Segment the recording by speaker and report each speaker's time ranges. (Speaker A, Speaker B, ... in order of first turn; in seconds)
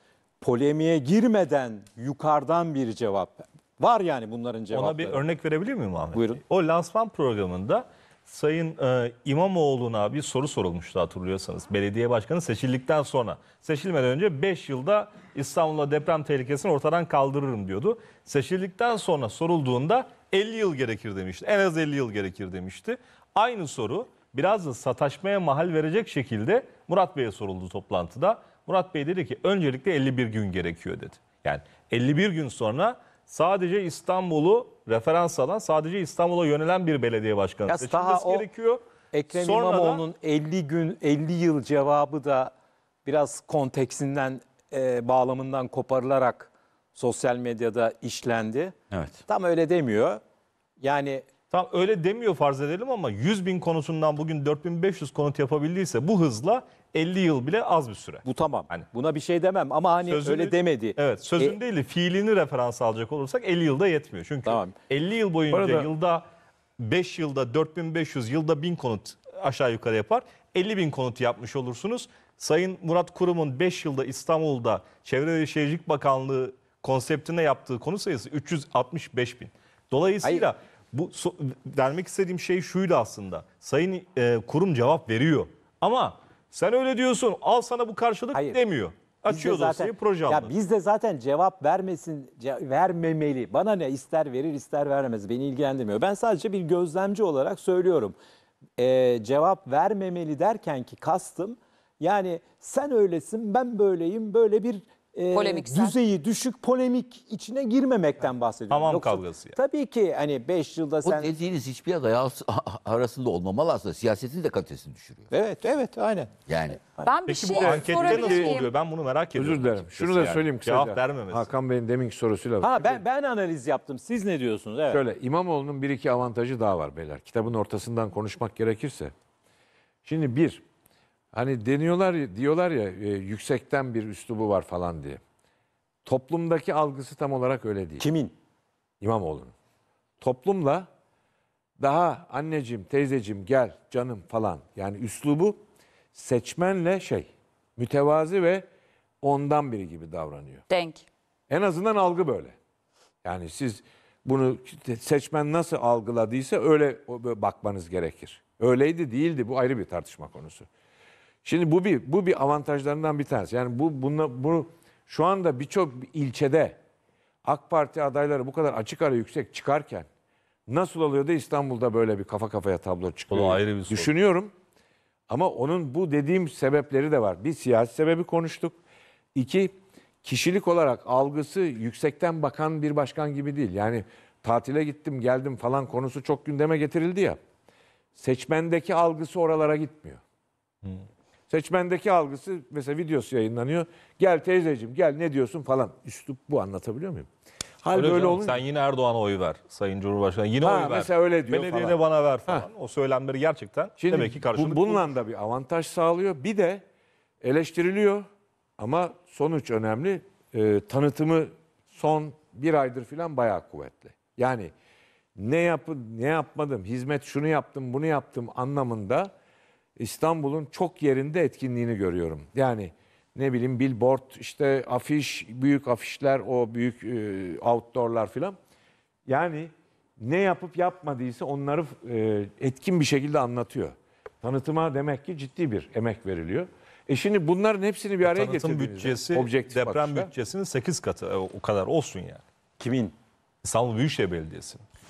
Speaker A: 0.4-5.2, 6.1-6.4, 37.7-38.5, 39.1-42.5, 43.0-48.7, 49.3-50.2, 50.8-51.2, 58.2-61.6, 64.5-64.7, 80.2-80.5, 88.3-88.6, 89.3-98.1, 98.8-111.3, 115.3-117.1, 122.6-125.0, 138.0-138.3, 242.8-243.1
Speaker B: 4.7-40.0, 51.5-58.9, 60.0-66.2, 66.8-90.5, 108.7-109.5, 117.4-121.5, 173.3-174.1, 197.9-205.1, 238.2-242.4, 243.6-244.8
Speaker C: 48.9-49.2, 111.0-115.3, 116.5-116.8
Speaker D: 65.5-65.9, 117.3-118.6, 119.3-123.0, 124.9-129.1, 130.0-130.6, 131.3-135.2, 136.1-138.0, 139.0-139.5, 140.2-140.9, 141.8-145.6, 146.1-148.7, 149.2-150.6, 151.5-152.6, 153.2-160.7, 161.4-166.8, 167.4-170.1, 170.7-174.5, 175.3-178.8, 179.3-187.4, 188.2-190.2, 191.5-197.3, 197.8-198.6, 200.6-202.7, 204.0-206.8, 207.4-208.2, 208.8-214.7, 215.3-219.3, 220.0-228.6, 229.3-240.3
Speaker E: 105.3-106.0, 117.0-118.7, 150.7-151.1